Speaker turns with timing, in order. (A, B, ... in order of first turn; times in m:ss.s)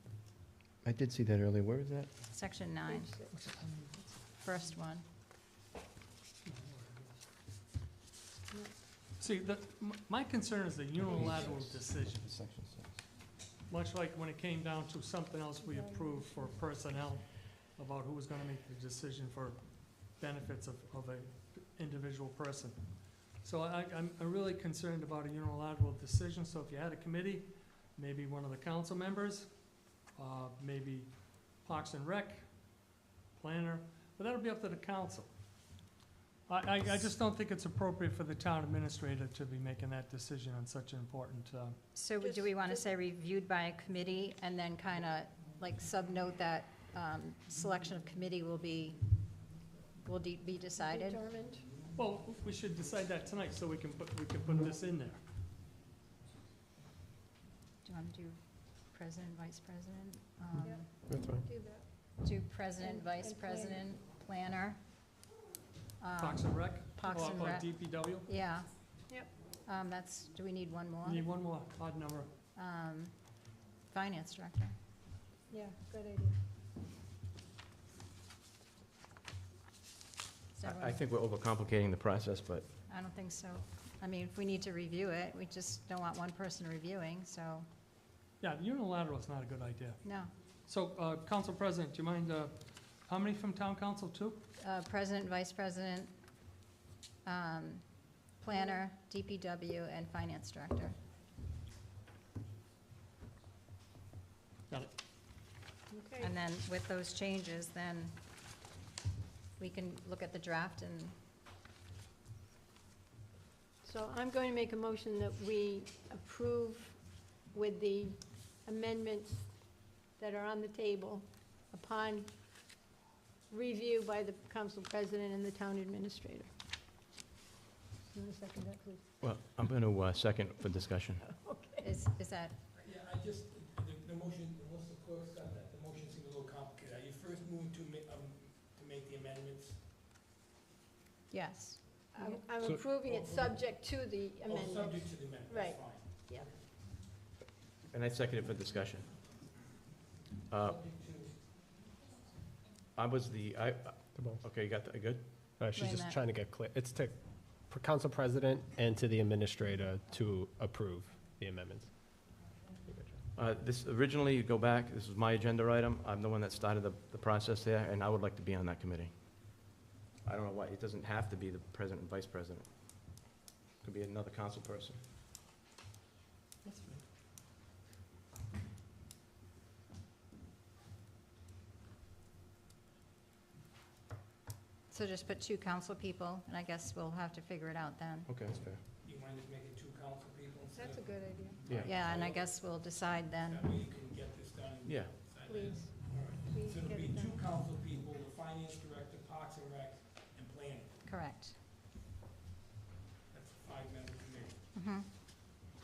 0:00.8-0:02.1 A
0:02.3-0:03.1 B
0:02.8-0:03.3 C
0:03.3-0:04.2 D
0:04.4-0:05.0 B
0:06.4-0:07.1 D
0:09.2-0:12.3 D
0:11.1-0:13.0 A
0:13.7-0:35.3 D
0:15.6-0:16.6 C
0:36.5-0:41.8 D
0:41.9-0:49.0 B
0:42.2-0:42.9 C
0:50.0-0:51.2 B
0:50.7-0:51.8 C
0:51.9-0:55.2 D
0:57.8-1:00.8 B
1:00.6-1:01.9 C
1:01.1-1:01.4 E
1:02.2-1:04.8 B
1:02.8-1:03.8 C
1:06.0-1:09.0 B
1:06.2-1:08.3 D
1:09.6-1:11.2 B
1:11.0-1:12.3 D
1:12.6-1:13.3 B
1:13.9-1:14.7 B
1:15.5-1:16.4 C
1:20.5-1:21.0 B
1:20.6-1:22.7 A
1:22.9-1:27.6 B
1:28.4-1:30.0 D
1:30.0-1:30.3 B
1:30.6-1:34.4 D
1:34.6-1:36.1 B
1:37.2-1:41.0 B
1:38.5-1:38.8 C
1:45.9-1:46.3 C
1:46.2-1:48.1 B
1:49.6-1:51.1 B
1:53.8-2:02.9 C
2:03.5-2:06.5 C
2:08.1-2:09.0 C
2:09.2-2:11.2 A
2:11.2-2:11.9 C
2:11.8-2:12.5 B
2:12.7-2:19.8 F
2:21.3-2:21.8 B
2:22.1-2:26.5 C
2:23.0-2:23.6 F
2:24.4-2:26.6 F
2:27.9-2:29.1 A
2:30.5-2:30.8 A
2:30.7-2:31.4 F
2:32.9-2:35.2 A
2:34.1-2:34.4 E
2:35.6-2:42.3 E
2:35.8-2:36.2 B
2:42.9-2:43.1 E
2:43.3-2:49.7 A
2:50.2-2:53.2 A
2:53.8-2:55.0 A
3:04.9-3:08.3 B
3:08.2-3:08.8 A
3:08.9-3:12.5 F
3:10.7-3:11.6 C
3:11.6-3:12.3 A
3:11.8-3:13.7 B
3:13.4-3:20.9 F
3:14.8-3:15.1 A
3:15.4-3:17.4 C
3:21.0-3:21.6 B
3:23.3-3:24.6 F
3:24.7-3:25.0 B